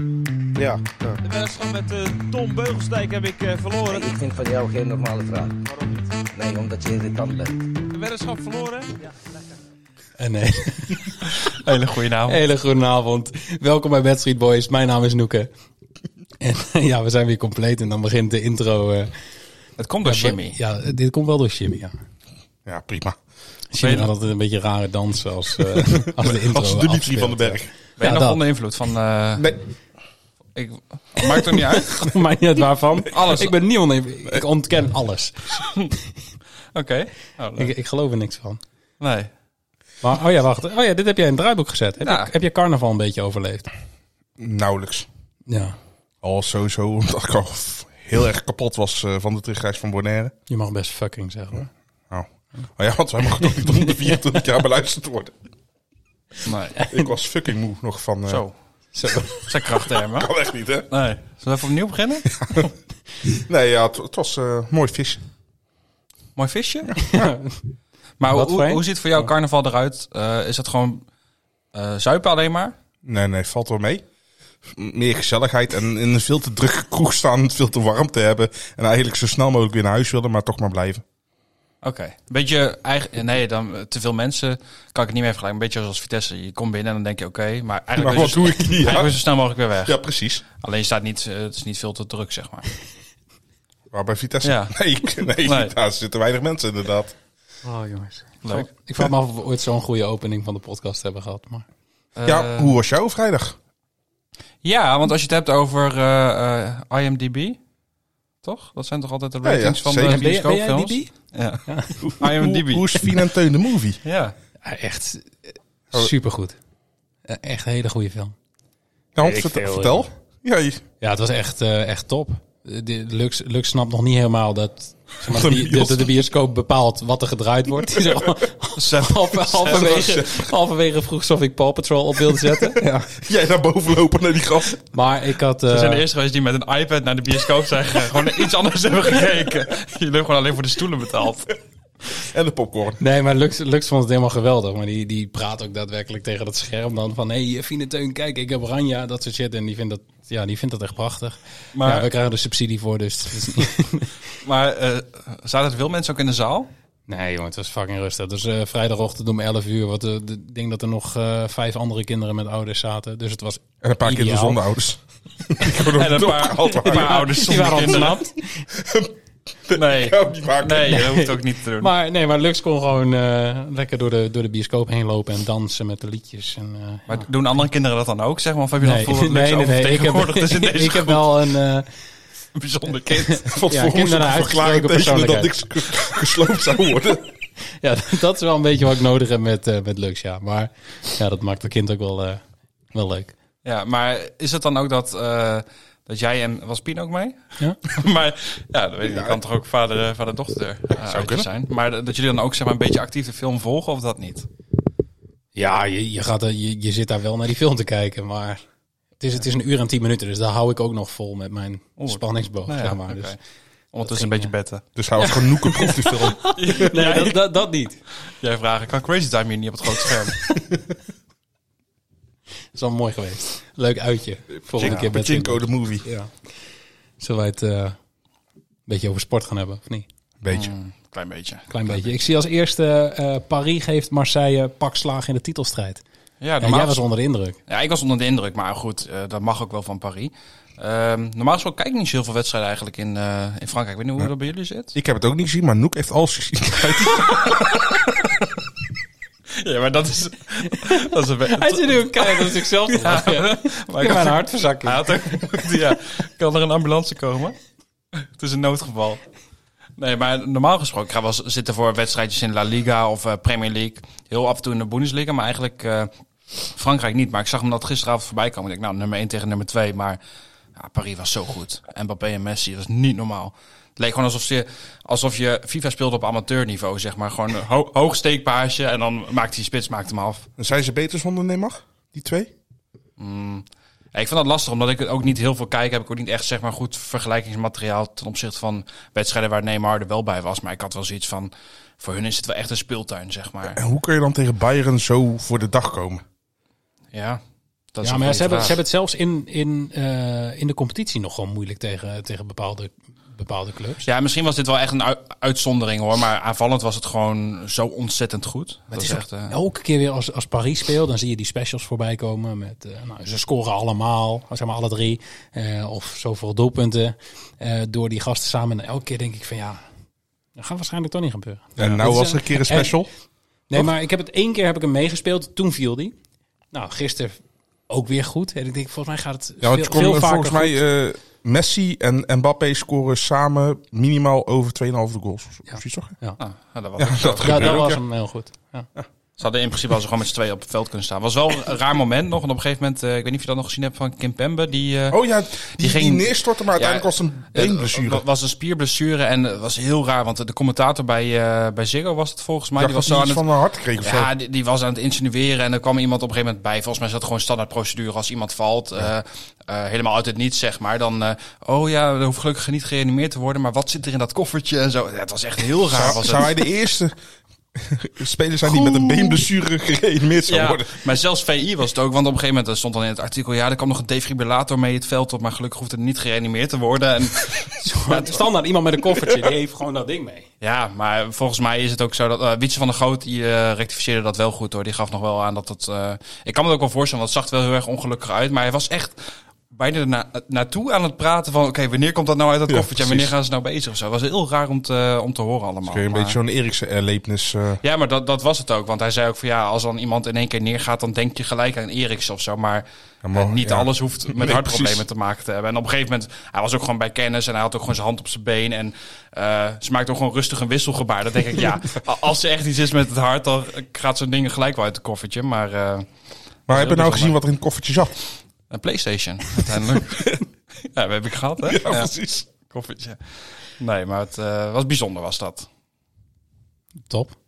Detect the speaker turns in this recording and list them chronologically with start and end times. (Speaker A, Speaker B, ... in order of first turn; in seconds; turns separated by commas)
Speaker A: 1.2-4.1, Speaker B: 3.9-5.6, Speaker A: 5.8-6.0, Speaker B: 6.3-7.6, Speaker A: 7.9-9.1, Speaker C: 10.2-11.2, Speaker D: 11.3-12.4, Speaker C: 12.3-15.5, Speaker C: 16.4-19.1, Speaker D: 19.8-20.6, Speaker C: 20.0-21.9, Speaker E: 22.7-23.2, Speaker C: 23.7-28.4, Speaker D: 23.8-24.1, Speaker E: 25.8-27.7, Speaker D: 28.0-29.5, Speaker D: 30.6-31.9, Speaker C: 31.6-35.8, Speaker D: 33.1-33.5, Speaker D: 36.7-37.7, Speaker C: 37.6-38.6, Speaker D: 39.0-39.3, Speaker C: 40.0-43.7, Speaker D: 42.0-42.3, Speaker E: 44.4-45.1, Speaker C: 45.5-45.8, Speaker E: 46.2-50.3, Speaker C: 50.5-51.7, Speaker E: 52.1-55.4, Speaker C: 53.3-54.4, Speaker D: 56.5-56.8, Speaker C: 56.8-57.1, Speaker E: 56.9-58.4, Speaker D: 58.3-58.5, Speaker C: 58.9-59.5, Speaker D: 59.3-60.3, Speaker E: 60.1-60.9, Speaker D: 60.9-62.3, Speaker E: 62.4-62.7, Speaker E: 63.2-65.2, Speaker D: 66.4-67.0, Speaker C: 67.0-67.6, Speaker D: 68.2-71.0, Speaker C: 68.3-69.3, Speaker D: 71.7-72.8, Speaker E: 73.0-74.0, Speaker E: 74.7-81.0, Speaker D: 81.8-90.0, Speaker E: 88.0-89.2, Speaker E: 89.8-90.4, Speaker D: 90.6-92.7, Speaker E: 93.9-97.1, Speaker D: 94.4-94.8, Speaker D: 95.4-95.7, Speaker C: 97.6-101.7, Speaker D: 98.4-98.7, Speaker D: 102.2-102.8, Speaker E: 102.3-103.6, Speaker D: 104.6-107.6, Speaker D: 108.4-111.7, Speaker E: 109.4-110.2, Speaker C: 110.0-111.1, Speaker C: 111.7-112.0, Speaker E: 112.0-114.0, Speaker D: 112.2-113.0, Speaker D: 114.0-114.3, Speaker C: 114.6-116.6, Speaker C: 117.3-118.3, Speaker E: 119.2-120.8, Speaker C: 119.2-120.1, Speaker C: 121.0-133.1, Speaker E: 125.2-126.1, Speaker E: 128.0-128.3, Speaker D: 128.8-130.1, Speaker E: 129.7-130.5, Speaker E: 132.4-134.8, Speaker C: 134.9-136.0, Speaker D: 135.7-141.6, Speaker E: 142.2-143.0, Speaker C: 143.0-154.1, Speaker D: 151.8-152.1, Speaker D: 154.4-156.7, Speaker C: 157.1-164.6, Speaker E: 163.8-168.0, Speaker D: 165.8-168.2, Speaker C: 166.7-168.7, Speaker E: 168.7-169.1, Speaker E: 169.7-171.0, Speaker D: 169.7-171.9, Speaker C: 170.9-177.2, Speaker D: 177.1-181.4, Speaker C: 178.8-181.9, Speaker D: 182.6-183.5, Speaker C: 183.1-185.5, Speaker E: 183.5-187.3, Speaker C: 187.8-192.4, Speaker C: 192.9-193.3, Speaker D: 193.7-204.5, Speaker E: 199.0-199.4, Speaker E: 200.9-201.5, Speaker C: 205.6-208.6, Speaker C: 209.2-213.4, Speaker D: 212.0-213.4, Speaker D: 213.9-214.8, Speaker C: 214.0-214.5, Speaker E: 215.0-216.5, Speaker C: 215.2-218.0, Speaker D: 216.6-217.6, Speaker D: 218.2-220.4, Speaker C: 222.8-226.3, Speaker E: 224.7-226.1, Speaker D: 224.8-225.1, Speaker C: 227.2-228.0, Speaker C: 228.9-230.1, Speaker E: 230.4-230.7, Speaker D: 230.5-232.2, Speaker C: 231.7-236.0, Speaker D: 236.4-237.0, Speaker C: 236.6-237.6, Speaker D: 237.7-244.9, Speaker E: 244.9-247.8, Speaker D: 247.2-248.4, Speaker D: 249.6-257.6, Speaker C: 250.7-255.5, Speaker D: 258.1-259.2, Speaker D: 260.0-266.1, Speaker D: 266.7-270.2, Speaker D: 270.8-280.5, Speaker E: 280.6-282.5, Speaker D: 283.2-293.8, Speaker E: 293.8-296.2, Speaker D: 297.1-297.4, Speaker D: 297.9-298.8, Speaker C: 298.0-304.1, Speaker D: 304.0-309.6, Speaker C: 308.9-319.8, Speaker C: 320.6-323.0, Speaker E: 321.8-323.1, Speaker C: 323.7-326.2, Speaker C: 326.7-330.8, Speaker E: 329.6-336.2, Speaker C: 335.7-336.4, Speaker D: 336.4-337.9, Speaker E: 337.0-338.0, Speaker C: 337.4-338.9, Speaker D: 339.4-353.5, Speaker E: 345.1-348.2, Speaker E: 352.8-354.3, Speaker D: 354.0-366.7, Speaker E: 365.9-367.1, Speaker E: 367.8-371.0, Speaker D: 368.8-369.4, Speaker D: 370.5-378.5, Speaker C: 377.8-380.5, Speaker D: 380.6-396.4, Speaker E: 392.7-393.3, Speaker E: 395.8-397.8, Speaker D: 397.8-416.1, Speaker E: 403.2-405.1, Speaker D: 416.7-417.4, Speaker E: 416.7-418.1, Speaker D: 418.7-422.1, Speaker E: 420.0-420.3, Speaker E: 421.6-422.5, Speaker D: 422.7-425.7, Speaker C: 427.1-427.4